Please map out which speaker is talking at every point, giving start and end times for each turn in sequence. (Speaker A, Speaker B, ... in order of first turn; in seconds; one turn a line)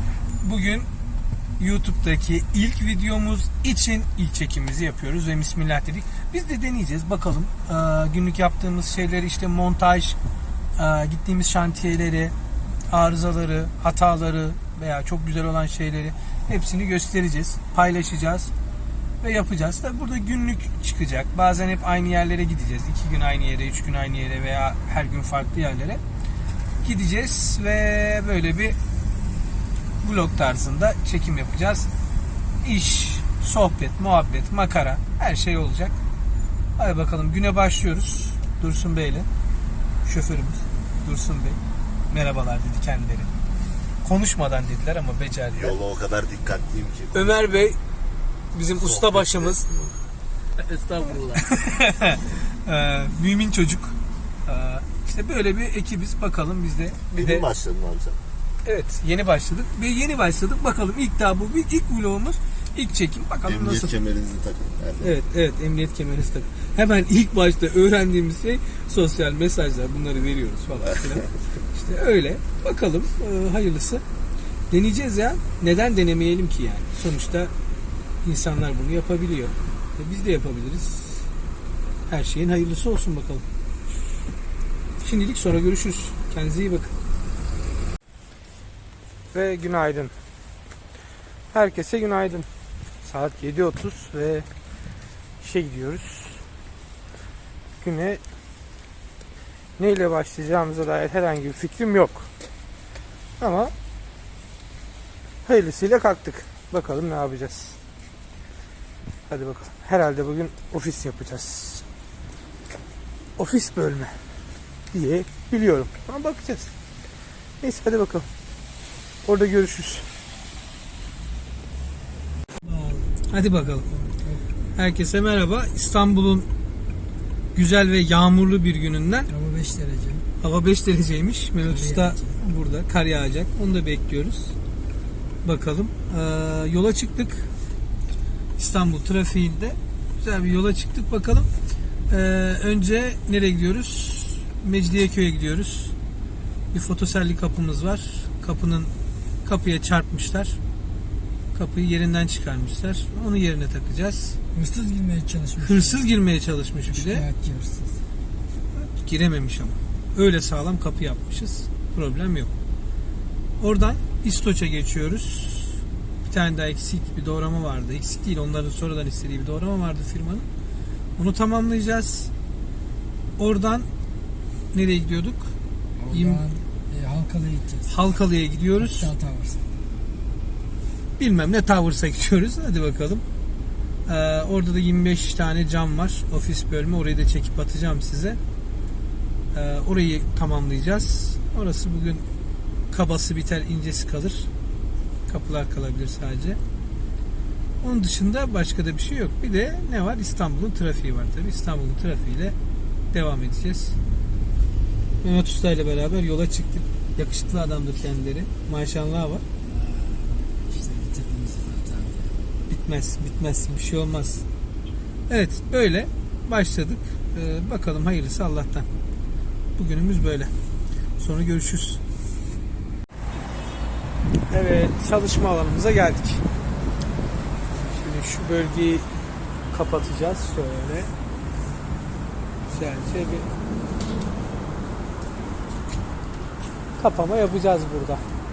Speaker A: 0.4-0.9
Speaker A: 1.6-10.2
Speaker A: 10.8-12.3
Speaker A: 12.9-18.5
Speaker A: 19.2-26.0
Speaker A: 26.8-28.8
Speaker A: 30.0-31.9
Speaker A: 32.6-36.0
Speaker A: 36.8-39.3
Speaker A: 40.0-41.6
Speaker A: 42.1-43.3
Speaker A: 44.0-45.8
Speaker B: 45.5-47.4
Speaker A: 47.1-47.8
Speaker A: 48.5-49.6
Speaker B: 48.8-49.9
Speaker C: 50.7-51.0
Speaker A: 51.3-53.9
Speaker A: 54.4-57.5
Speaker B: 57.1-58.2
Speaker A: 58.6-63.9
Speaker B: 63.5-65.1
Speaker A: 65.0-74.0
Speaker A: 74.7-77.5
Speaker A: 78.2-81.2
Speaker A: 82.1-83.4
Speaker A: 85.0-86.9
Speaker A: 89.3-90.1
Speaker A: 91.5-92.5
Speaker A: 93.0-94.5
Speaker A: 95.4-96.4
Speaker A: 97.8-98.2
Speaker A: 99.8-102.3
Speaker A: 103.4-103.7
Speaker A: 105.4-107.8
Speaker A: 109.3-111.8
Speaker A: 113.4-114.1
Speaker A: 114.9-116.7
Speaker A: 117.6-118.3
Speaker A: 119.2-120.1
Speaker C: 122.6-123.2
Speaker A: 123.3-123.9
Speaker C: 123.9-124.4
Speaker A: 124.7-126.5
Speaker A: 127.5-129.3
Speaker C: 129.3-130.2
Speaker A: 130.4-134.5
Speaker C: 131.6-132.4
Speaker A: 135.4-137.5
Speaker A: 138.6-141.5
Speaker A: 142.1-145.9
Speaker A: 146.7-148.9
Speaker A: 149.4-150.6
Speaker A: 151.5-154.4
Speaker C: 154.5-156.1
Speaker A: 155.6-157.3
Speaker C: 156.9-158.0
Speaker A: 158.7-162.5
Speaker A: 163.6-170.5
Speaker A: 171.2-172.3
Speaker A: 173.4-173.9
Speaker A: 174.7-175.5
Speaker C: 176.0-177.9
Speaker A: 176.1-176.4
Speaker A: 177.8-179.1
Speaker C: 178.7-179.8
Speaker A: 181.2-183.2
Speaker A: 184.1-188.4
Speaker A: 189.5-192.2
Speaker A: 192.9-194.5
Speaker A: 195.3-196.6
Speaker A: 197.8-202.5
Speaker A: 203.1-204.0
Speaker A: 205.2-209.4
Speaker C: 209.6-212.3
Speaker A: 212.7-214.4
Speaker A: 215.3-218.9
Speaker A: 219.8-220.5
Speaker A: 221.2-222.0
Speaker A: 224.5-226.4
Speaker A: 227.9-229.1
Speaker A: 229.7-231.1
Speaker A: 232.7-233.5
Speaker A: 237.0-238.2